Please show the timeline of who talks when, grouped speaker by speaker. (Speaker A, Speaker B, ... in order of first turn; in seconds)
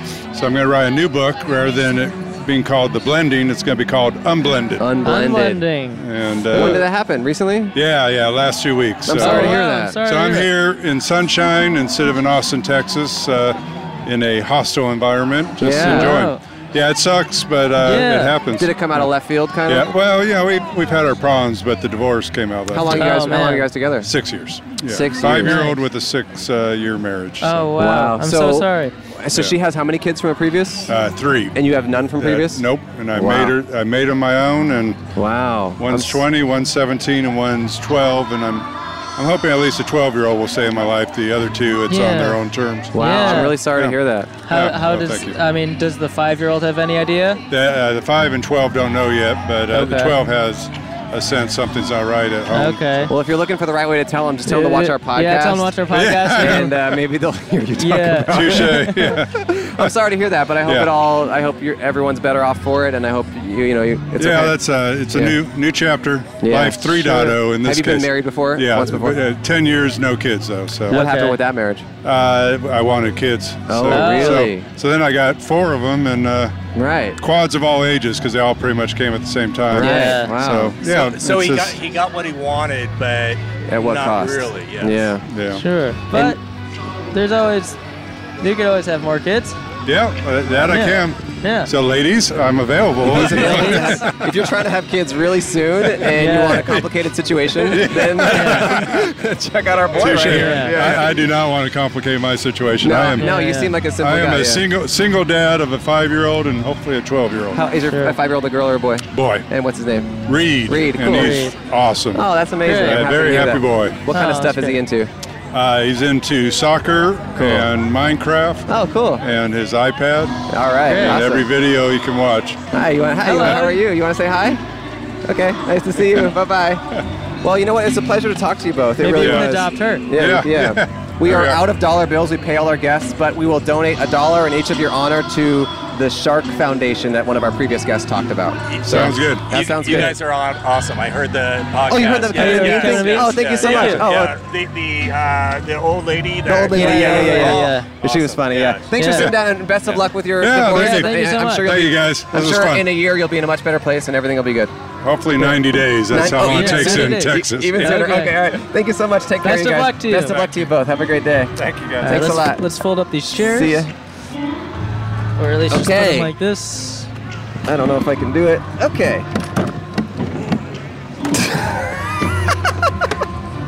Speaker A: 0.3-4.9, 5.9-6.9, 7.7-19.1, 19.6-23.4, 24.0-27.7, 30.9-31.6, 32.1-35.1, 35.8-45.4, 47.5-53.1, 55.9-56.7, 58.3-59.9, 60.6-60.9, 64.1-71.1, 72.0-76.6, 77.2-81.8, 85.2-85.6, 89.8-94.2, 95.8-96.8, 97.5-99.0, 99.9-107.7, 109.1-109.5, 110.2-114.0, 115.5-122.6, 129.1-131.7, 138.8-139.6, 149.1-149.4, 150.4-153.0, 155.0-158.0, 161.6-162.3
Speaker B: 4.8-5.6, 6.5-7.7, 9.1-10.0, 15.6-16.2, 18.6-19.9, 22.7-24.1, 24.9-25.6, 27.8-30.9, 31.5-32.6, 33.1-33.5, 35.1-36.2, 42.9-44.4, 53.0-55.8, 56.4-64.5, 66.4-69.2, 70.9-71.9, 73.7-74.7, 76.7-77.2, 79.7-80.8, 83.6-85.2, 86.1-86.4, 93.0-101.3, 102.8-104.6, 107.5-111.5, 112.1-115.1, 117.3-117.7, 118.7-119.2, 120.5-121.5, 122.7-124.6, 125.2-126.8, 127.4-140.2, 141.9-144.3, 146.4-154.7, 155.3-162.6, 163.3-163.9, 165.7-166.3, 167.6-169.3
Speaker C: 5.0-6.0, 9.2-10.5, 15.7-16.4, 17.8-18.4, 22.9-23.7, 25.3-25.8, 27.4-28.9, 41.9-42.4, 43.0-43.6, 44.4-47.4, 49.7-50.2, 52.5-53.1, 54.5-56.8, 57.8-58.7, 70.9-71.4, 73.9-74.5, 79.7-80.3, 85.5-86.4, 87.1-87.8, 88.4-89.6, 90.6-91.7, 93.2-94.1, 96.1-96.7, 98.2-98.8, 100.2-100.8, 103.1-103.7, 107.8-108.2, 111.0-111.5, 112.6-113.1, 114.1-114.8, 120.9-121.3, 123.2-123.8, 129.0-130.1, 142.3-144.1, 146.7-147.9, 148.9-149.3, 150.6-151.7, 156.2-158.4, 159.4-160.5, 162.0-163.9, 165.4-167.1
Speaker D: 80.8-85.1, 138.7-148.9